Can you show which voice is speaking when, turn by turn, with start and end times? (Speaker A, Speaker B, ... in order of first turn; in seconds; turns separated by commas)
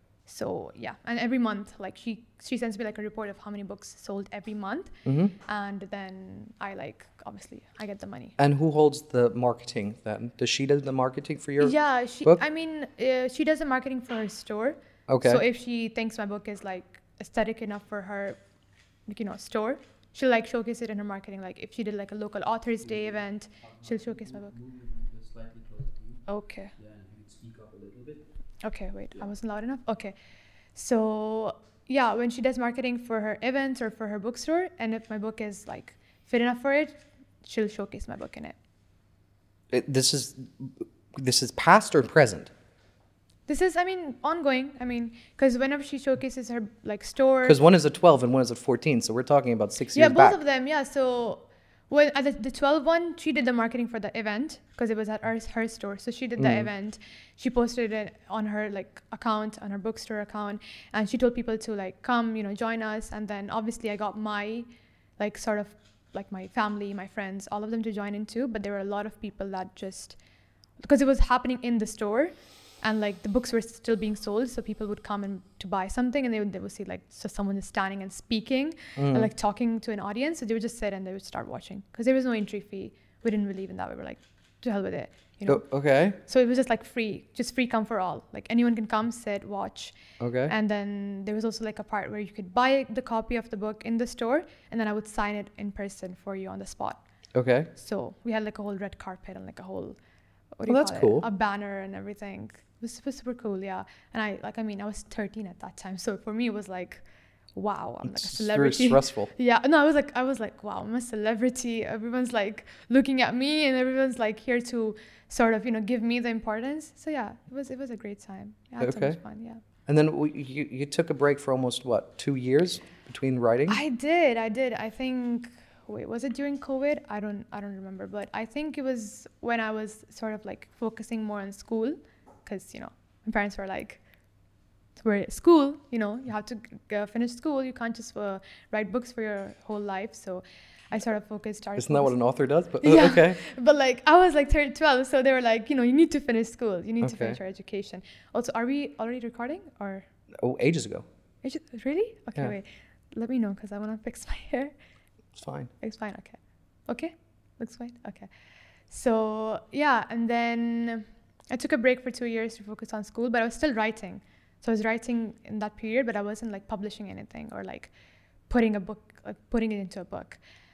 Speaker A: 0.3-4.9, Speaker B: 5.0-5.3, Speaker A: 5.5-8.4, Speaker B: 8.4-12.4, Speaker A: 11.6-18.4, Speaker B: 15.1-15.4, Speaker A: 19.1-24.5, Speaker C: 22.8-26.2, Speaker A: 26.3-26.7, Speaker C: 26.8-28.2, Speaker A: 28.6-30.1, Speaker A: 30.8-38.5, Speaker B: 39.7-42.5, Speaker A: 43.5-47.6, Speaker B: 47.4-50.4, Speaker A: 49.9-64.7, Speaker B: 56.4-56.7, Speaker A: 65.2-70.2, Speaker A: 70.8-85.6, Speaker B: 79.0-79.3, Speaker B: 85.5-86.2, Speaker A: 86.2-90.0, Speaker B: 90.2-90.5, Speaker A: 90.5-97.0, Speaker B: 97.3-97.7, Speaker A: 97.8-100.0, Speaker A: 100.6-107.0, Speaker B: 100.7-101.3, Speaker A: 107.5-119.6, Speaker B: 108.0-109.3, Speaker B: 118.8-119.2, Speaker B: 119.9-123.8, Speaker A: 123.7-134.0, Speaker A: 135.0-142.1, Speaker B: 141.8-143.4, Speaker A: 142.8-150.1, Speaker B: 147.0-147.4, Speaker B: 150.4-151.1, Speaker A: 151.4-154.7, Speaker B: 155.4-155.7, Speaker A: 155.8-158.3, Speaker A: 158.9-167.9, Speaker A: 168.5-170.4